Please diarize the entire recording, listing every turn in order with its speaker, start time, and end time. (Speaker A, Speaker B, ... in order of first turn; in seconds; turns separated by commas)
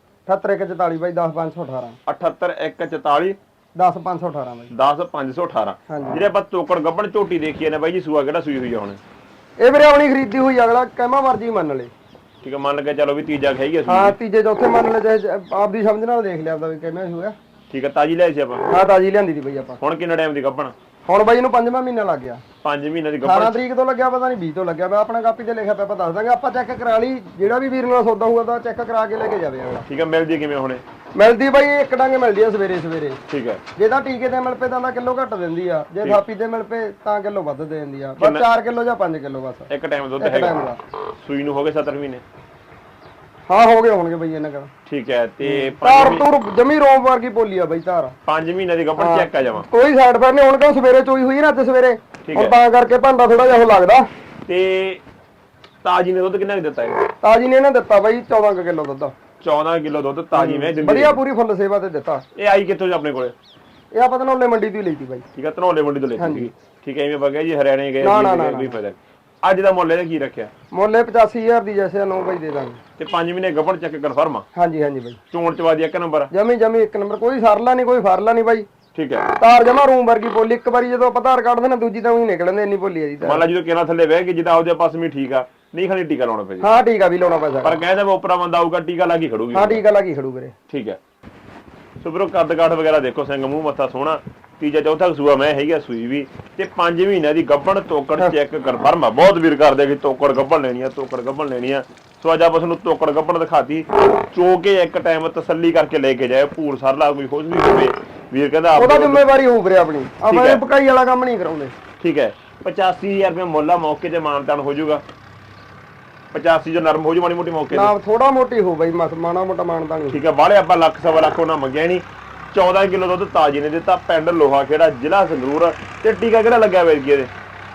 Speaker A: 0.3-2.0, Speaker B: 2.1-3.4, Speaker A: 3.8-4.7, Speaker B: 4.7-9.0, Speaker A: 5.9-6.2, Speaker A: 9.6-11.9, Speaker B: 12.4-14.2, Speaker A: 13.9-17.4, Speaker B: 17.7-18.7, Speaker A: 18.7-19.8, Speaker B: 19.8-20.8, Speaker A: 21.1-22.4, Speaker B: 22.6-23.6, Speaker A: 23.2-29.9, Speaker B: 29.9-30.8, Speaker A: 31.1-33.2, Speaker B: 33.3-33.6, Speaker A: 33.8-39.7, Speaker B: 38.2-38.5, Speaker B: 39.7-40.6, Speaker A: 40.2-40.8, Speaker B: 41.2-42.2, Speaker A: 43.5-44.7, Speaker B: 44.9-46.2, Speaker A: 45.4-48.1, Speaker B: 48.3-49.7, Speaker A: 49.0-54.1, Speaker B: 52.3-52.5, Speaker B: 54.5-55.0, Speaker B: 55.8-57.0, Speaker A: 57.2-59.1, Speaker B: 59.4-61.2, Speaker A: 60.3-62.2, Speaker B: 62.4-63.4, Speaker A: 63.9-65.2, Speaker B: 65.3-70.5, Speaker A: 66.2-66.5, Speaker A: 68.0-68.8, Speaker A: 70.7-72.8, Speaker B: 73.0-74.5, Speaker A: 74.5-75.2, Speaker B: 75.3-76.3, Speaker A: 76.3-78.7, Speaker B: 78.9-79.3, Speaker A: 79.4-83.4, Speaker B: 83.2-86.7, Speaker A: 86.6-87.8, Speaker B: 87.6-89.8, Speaker A: 89.5-90.5, Speaker B: 90.7-91.0, Speaker B: 92.0-109.2, Speaker A: 108.8-111.8, Speaker B: 110.3-110.6, Speaker B: 112.0-115.0, Speaker B: 116.3-117.9, Speaker A: 117.7-120.2, Speaker B: 120.1-127.3